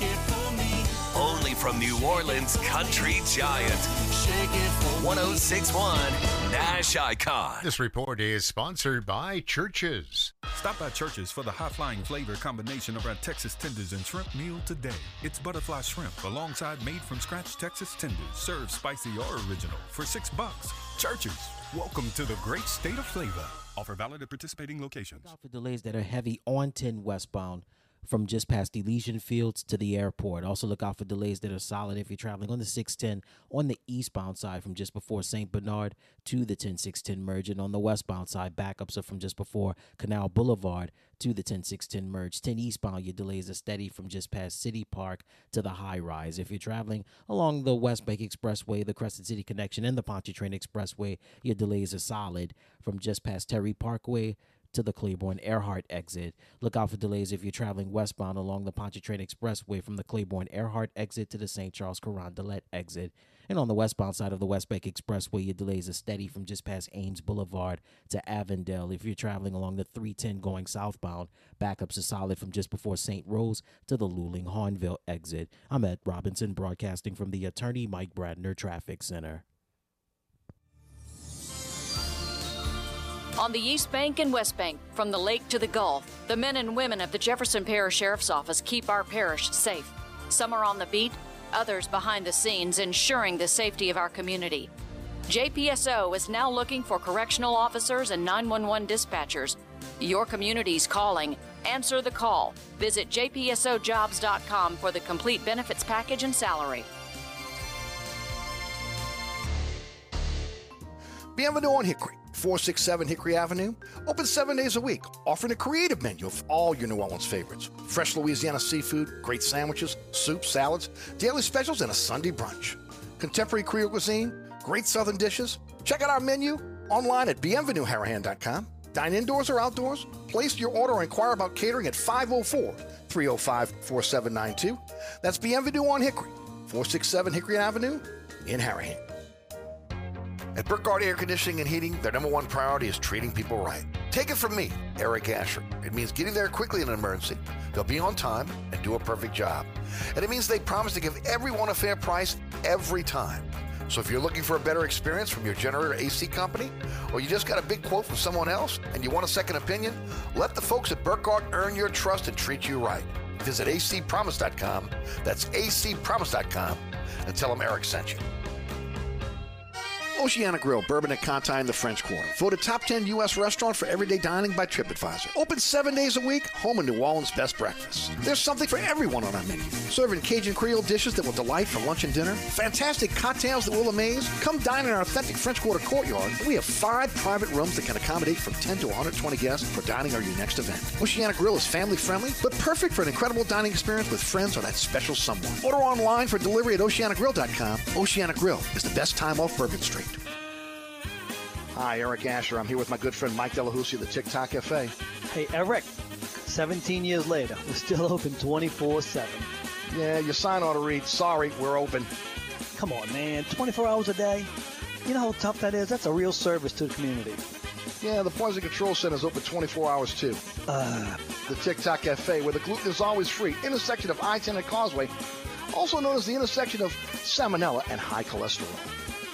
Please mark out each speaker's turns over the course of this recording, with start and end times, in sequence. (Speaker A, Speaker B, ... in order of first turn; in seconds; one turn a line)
Speaker A: 1.1-3.9
Speaker A: 5.0-7.7
Speaker B: 7.6-10.3
Speaker C: 10.5-25.3
Speaker D: 25.2-79.4
Speaker E: 83.4-94.7
Speaker E: 95.3-106.9
Speaker F: 111.3-139.0
Speaker F: 140.5-168.2
Speaker F: 170.2-200.2
Speaker F: 201.7-204.9
Speaker G: 205.3-209.5
Speaker F: 209.9-212.1
Speaker G: 212.8-214.5
Speaker G: 215.1-217.4
Speaker F: 218.0-220.4
Speaker G: 220.7-221.3
Speaker F: 221.5-225.1
Speaker F: 225.7-228.9